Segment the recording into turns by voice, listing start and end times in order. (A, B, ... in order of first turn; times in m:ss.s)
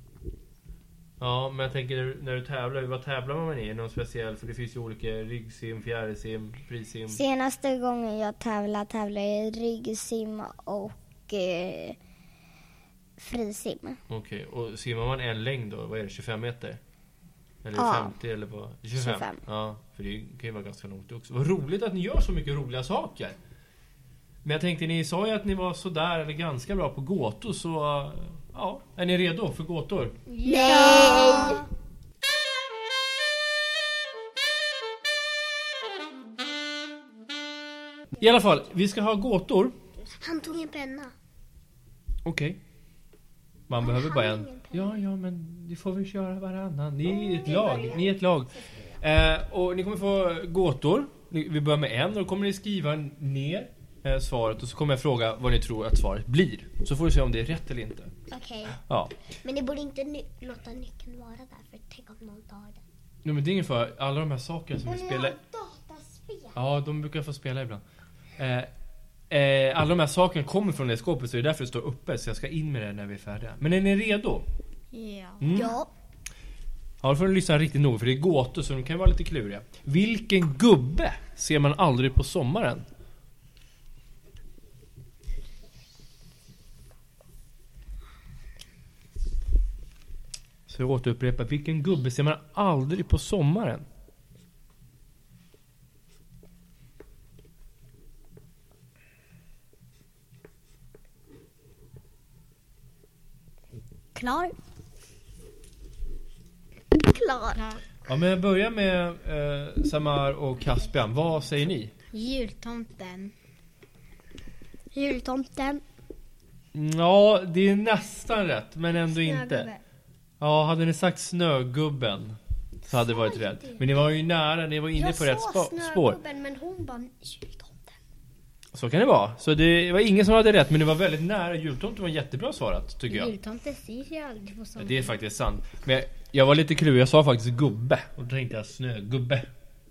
0:01.2-0:07.2 A
0:07.1-0:12.0 B
0:13.2-0:14.0 B
0:14.1-0:16.8 A
0:17.6-0:23.4 A
0:17.8-0:18.2 B
0:19.0-0:19.4 B
0:24.4-0:30.2 A
0:30.3-0:31.2 C
0:30.4-0:31.6 D
0:30.6-0:31.6 E
0:30.7-0:31.6 B
0:38.2-0:39.8 A
0:40.0-0:41.2 D
0:42.2-0:42.6 A
0:43.7-0:58.1 A
0:43.8-0:45.0 D
0:47.4-0:48.0 B
0:58.3-0:58.8 D
0:58.9-0:59.1 A
0:59.4-1:02.8 D
1:03.2-1:05.4 A
1:04.9-1:06.5 B
1:06.6-1:07.8 A
1:08.4-1:08.7 A
1:09.3-1:14.4 A
1:14.9-1:15.6 C
1:15.4-1:15.7 A
1:15.5-1:15.9 D
1:17.0-1:22.8 A
1:30.7-1:33.9 A
1:44.2-1:44.5 D
1:47.1-1:47.6 D
1:47.6-1:47.8 C
1:48.1-1:51.9 A
1:52.1-1:53.3 C
1:54.9-1:55.8 E
1:56.7-1:59.7 A
1:59.0-1:59.8 E
2:00.4-2:06.2 A
2:03.1-2:03.8 E
2:05.0-2:08.0 E
2:08.7-2:13.3 A
2:13.1-2:15.1 C
2:14.8-2:19.5 A